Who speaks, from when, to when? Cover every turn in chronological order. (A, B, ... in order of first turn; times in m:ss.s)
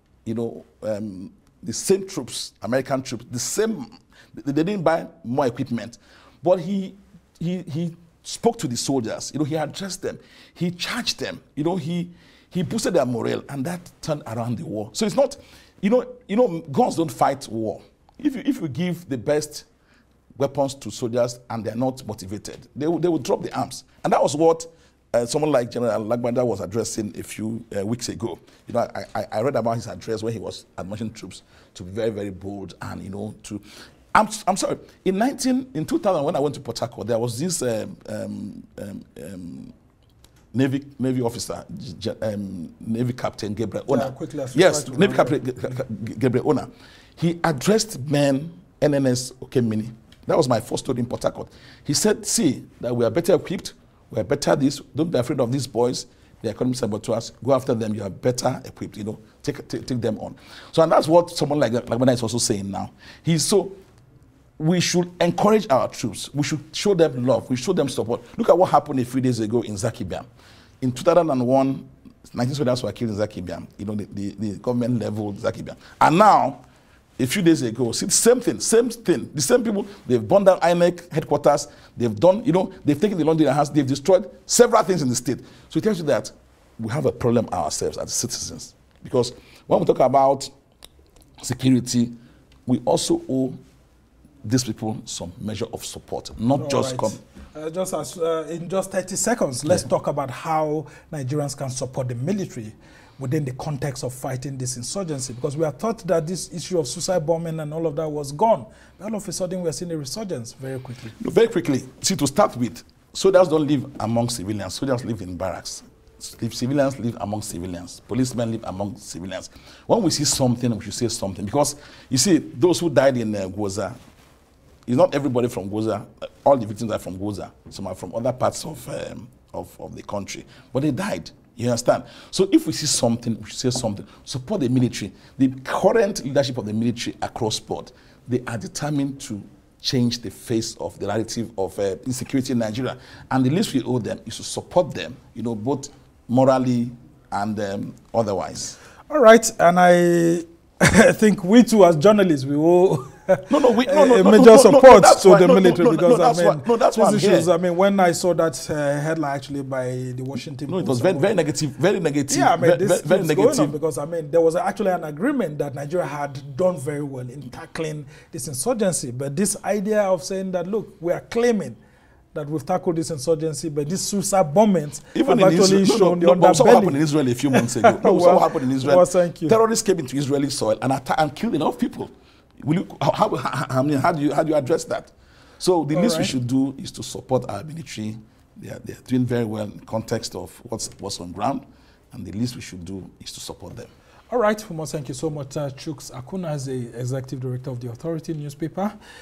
0:00.2-0:19.7 A
0:20.4-0:39.7 A
0:40.5-1:03.8 A
0:43.9-0:45.4 B
1:04.6-1:10.3 A
1:10.8-1:16.6 A
1:17.2-1:30.5 A
1:31.4-1:32.1 A
1:32.6-1:33.6 A
1:34.4-1:37.2 A
1:36.6-1:51.1 B
1:51.2-2:04.0 A
2:04.9-2:28.8 A
2:29.1-2:41.3 B
2:33.5-2:37.5 A
2:40.7-2:43.8 A
2:42.3-2:51.8 B
2:52.3-2:57.0 B
2:55.1-3:13.9 A
2:57.5-2:59.6 B
3:05.9-3:06.3 B
3:14.3-3:18.9 B